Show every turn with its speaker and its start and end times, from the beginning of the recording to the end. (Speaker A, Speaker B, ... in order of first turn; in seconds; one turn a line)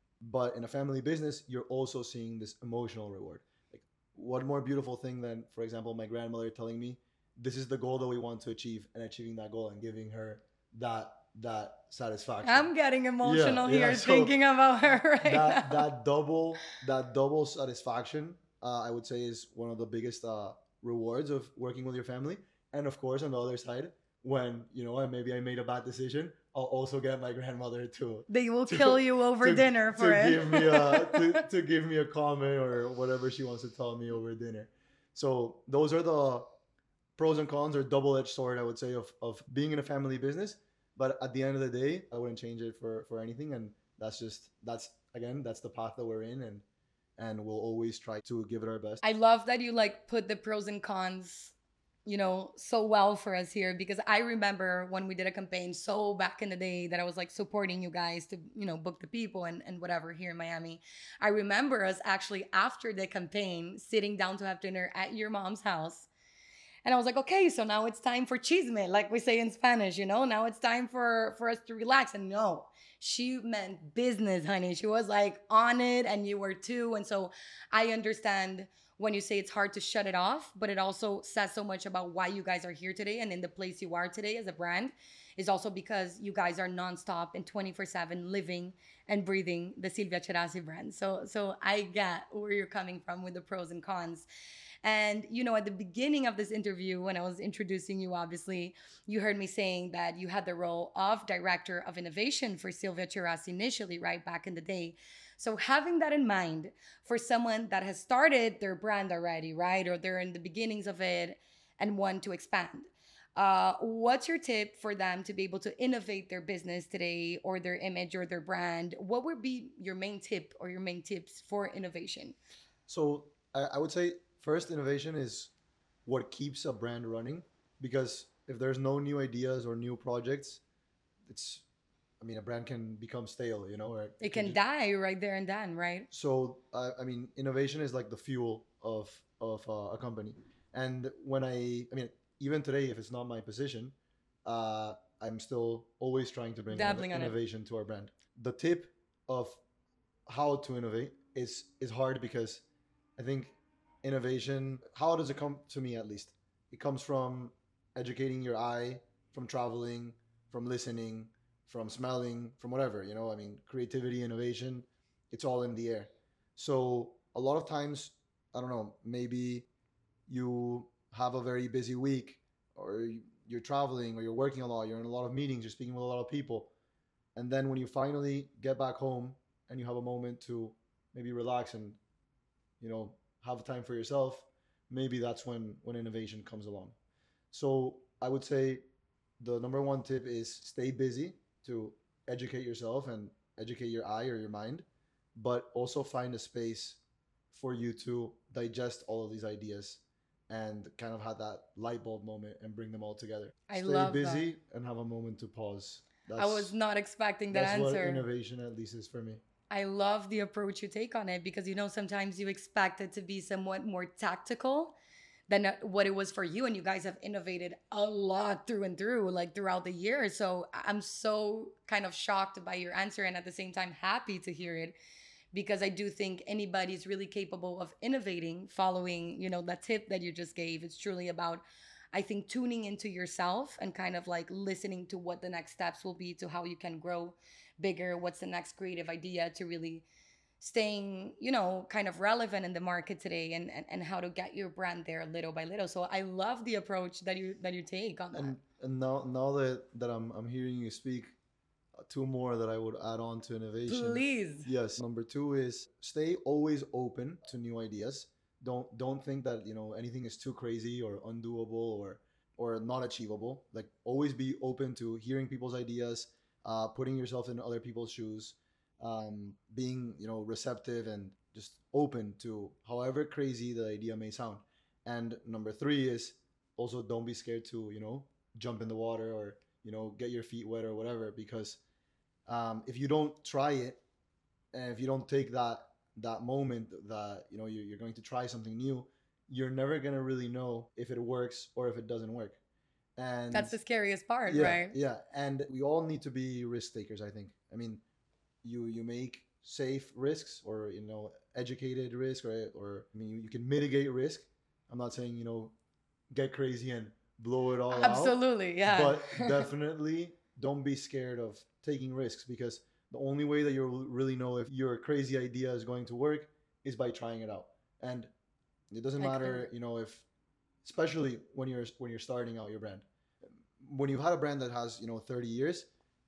Speaker A: 0.2-12.7
Speaker B: 12.4-15.9
Speaker A: 13.2-14.3
Speaker A: 15.2-36.5
Speaker B: 28.3-31.4
Speaker A: 37.2-46.6
Speaker A: 47.2-49.0
Speaker B: 49.0-51.5
Speaker B: 52.0-66.1
Speaker B: 66.8-94.3
Speaker B: 94.8-122.3
Speaker A: 122.9-125.5
Speaker A: 126.0-130.6
Speaker A: 131.2-131.6
Speaker A: 132.2-134.6
Speaker B: 134.2-136.1
Speaker A: 136.1-149.6
Speaker B: 146.7-147.3
Speaker A: 150.3-152.6
Speaker A: 153.2-169.7
Speaker A: 170.3-176.7
Speaker A: 177.3-182.0
Speaker A: 182.8-186.9
Speaker A: 187.5-188.8
Speaker A: 189.4-197.0
Speaker A: 197.5-206.7
Speaker B: 203.7-204.5
Speaker B: 206.4-208.2
Speaker A: 207.5-209.4
Speaker B: 209.7-215.0
Speaker B: 215.5-224.9
Speaker B: 225.5-240.1
Speaker B: 240.6-248.5
Speaker A: 248.3-251.4
Speaker A: 252.0-281.8
Speaker B: 253.9-254.7
Speaker A: 282.4-284.0
Speaker A: 284.7-292.6
Speaker A: 293.1-293.8
Speaker B: 293.5-294.9
Speaker A: 294.4-298.0
Speaker A: 298.6-305.7
Speaker A: 306.3-318.3
Speaker B: 307.9-309.7
Speaker A: 318.9-320.2
Speaker B: 319.2-319.7
Speaker A: 320.8-325.9